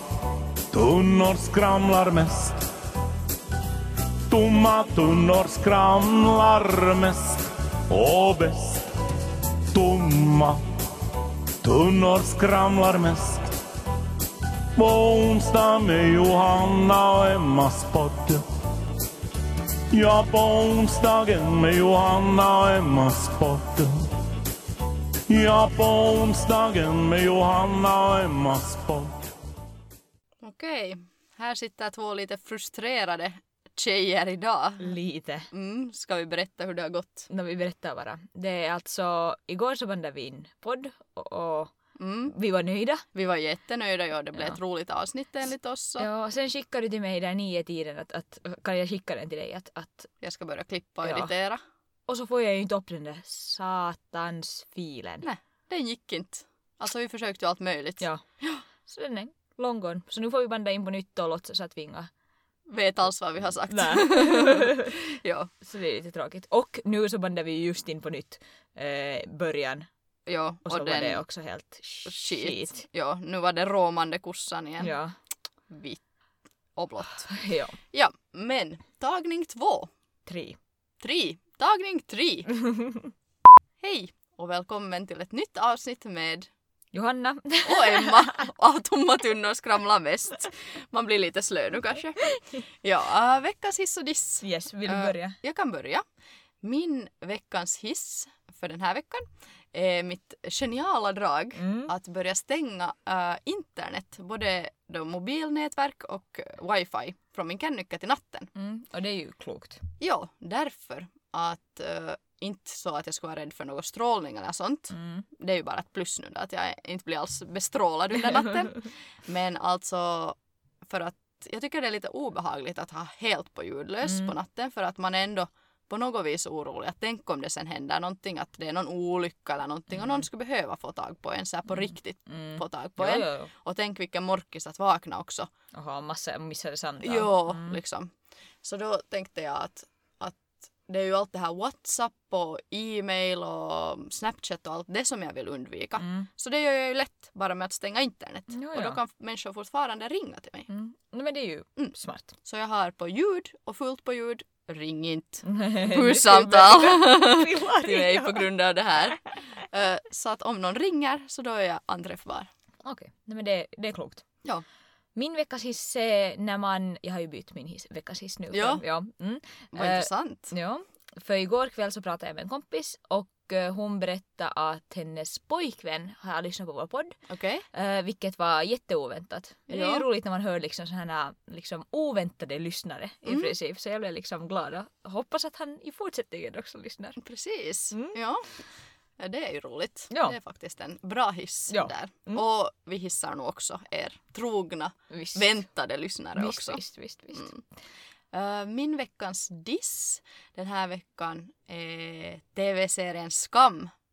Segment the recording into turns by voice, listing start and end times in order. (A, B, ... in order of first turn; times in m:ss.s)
0:00.7-0:02.6 A
0:04.3-0:08.9 A
0:09.7-0:10.6 A
0:11.6-0:13.5 A
0:14.7-0:18.4 A
0:19.9-0:24.1 A
0:25.3-0:29.2 A
0:30.4-0:34.9 B
0:34.8-0:35.5 C
0:35.5-0:37.3 B
0:37.3-0:43.0 C
0:42.0-0:42.3 B
0:43.1-0:46.1 B
0:46.0-0:50.1 C
0:50.2-0:51.6 B
0:51.0-0:51.3 C
0:52.1-0:55.3 C
0:55.2-0:58.6 B
0:58.8-1:02.1 C
1:02.7-1:05.5 B
1:03.7-1:04.9 C
1:05.6-1:09.9 C
1:10.2-1:11.2 B
1:10.6-1:12.8 C
1:12.0-1:14.9 B
1:14.8-1:15.1 C
1:15.7-1:16.0 B
1:16.8-1:17.3 B
1:17.3-1:17.8 C
1:17.9-1:19.9 B
1:20.2-1:20.6 C
1:21.0-1:22.5 B
1:22.6-1:23.1 C
1:23.8-1:26.5 B
1:26.9-1:28.4 C
1:27.6-1:36.0 B
1:34.4-1:35.4 C
1:36.6-1:48.5 B
1:41.6-1:41.9 C
1:48.5-1:49.8 C
1:50.0-2:15.5 B
1:54.9-1:55.2 C
2:04.0-2:04.3 C
2:09.9-2:10.2 C
2:12.3-2:13.5 C
2:15.7-2:17.8 C
2:17.0-2:30.7 B
2:26.0-2:26.3 C
2:28.5-2:29.0 C
2:30.7-2:32.3 C
2:31.8-2:42.5 B
2:35.4-2:38.5 C
2:39.2-2:39.5 C
2:42.8-2:44.2 C
2:45.1-2:57.2 C
2:48.5-2:48.8 B
2:49.7-2:50.5 B
2:57.3-2:57.6 B
2:57.7-3:07.2 C
2:59.7-3:00.0 B
3:03.2-3:03.5 B
3:07.2-3:08.6 B
3:07.9-3:08.2 C
3:09.2-3:16.8 B
3:10.1-3:10.4 C
3:11.7-3:12.4 C
3:15.1-3:15.6 C
3:16.4-3:17.5 C
3:17.3-3:17.6 B
3:18.3-3:23.9 B